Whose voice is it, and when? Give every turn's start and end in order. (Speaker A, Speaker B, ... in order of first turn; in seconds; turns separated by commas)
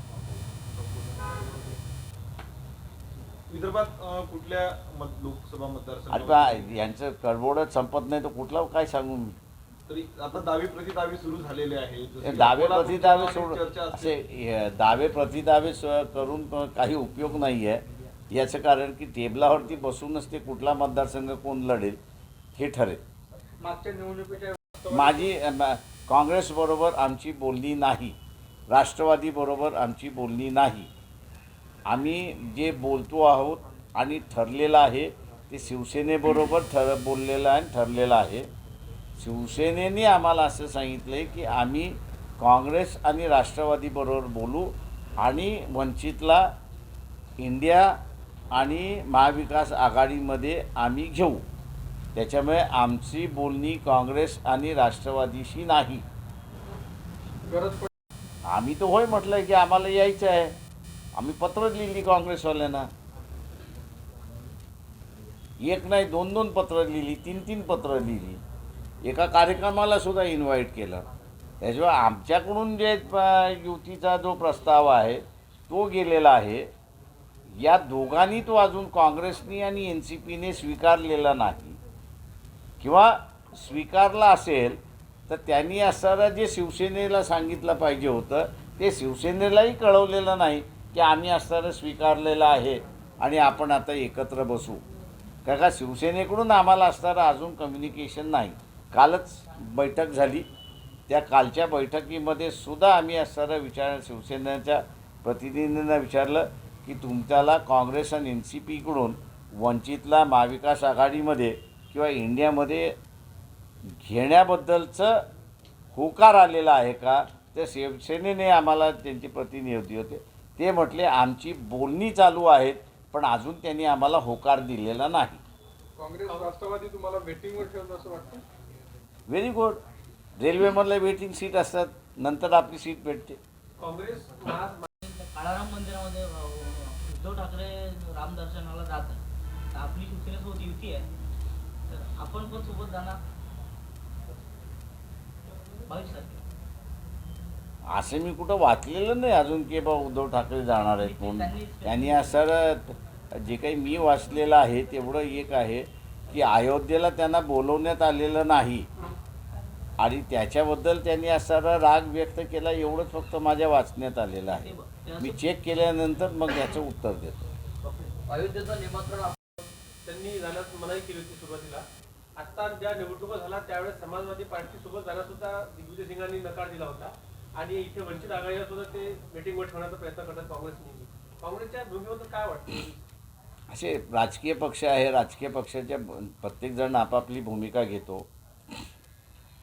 Speaker A: 0.7-1.8, Speaker A: 3.5-6.7, Speaker B: 6.1-9.4, Speaker A: 9.9-14.1, Speaker B: 12.2-22.0, Speaker B: 22.6-23.0, Speaker C: 23.6-25.3, Speaker B: 24.9-28.1, Speaker B: 28.7-30.9, Speaker B: 31.9-38.5, Speaker B: 39.2-46.5, Speaker B: 47.4-48.0, Speaker B: 48.5-51.4, Speaker B: 52.1-56.0, Speaker C: 57.5-57.8, Speaker B: 58.4-60.5, Speaker B: 61.1-62.9, Speaker B: 65.6-68.4, Speaker B: 69.0-71.1, Speaker B: 71.6-76.7, Speaker B: 77.5-81.8, Speaker B: 82.8-94.8, Speaker B: 95.4-100.5, Speaker B: 101.1-112.9, Speaker B: 114.0-115.2, Speaker B: 115.9-125.4, Speaker C: 126.0-128.4, Speaker B: 129.3-129.8, Speaker B: 130.4-133.4, Speaker D: 133.8-134.8, Speaker E: 135.0-139.2, Speaker E: 139.7-141.1, Speaker E: 141.9-143.2, Speaker E: 145.9-146.4, Speaker B: 147.9-158.9, Speaker E: 150.9-152.4, Speaker B: 160.0-167.4, Speaker E: 164.5-165.4, Speaker E: 167.8-169.3, Speaker D: 170.0-171.8, Speaker D: 172.4-183.0, Speaker B: 183.7-188.3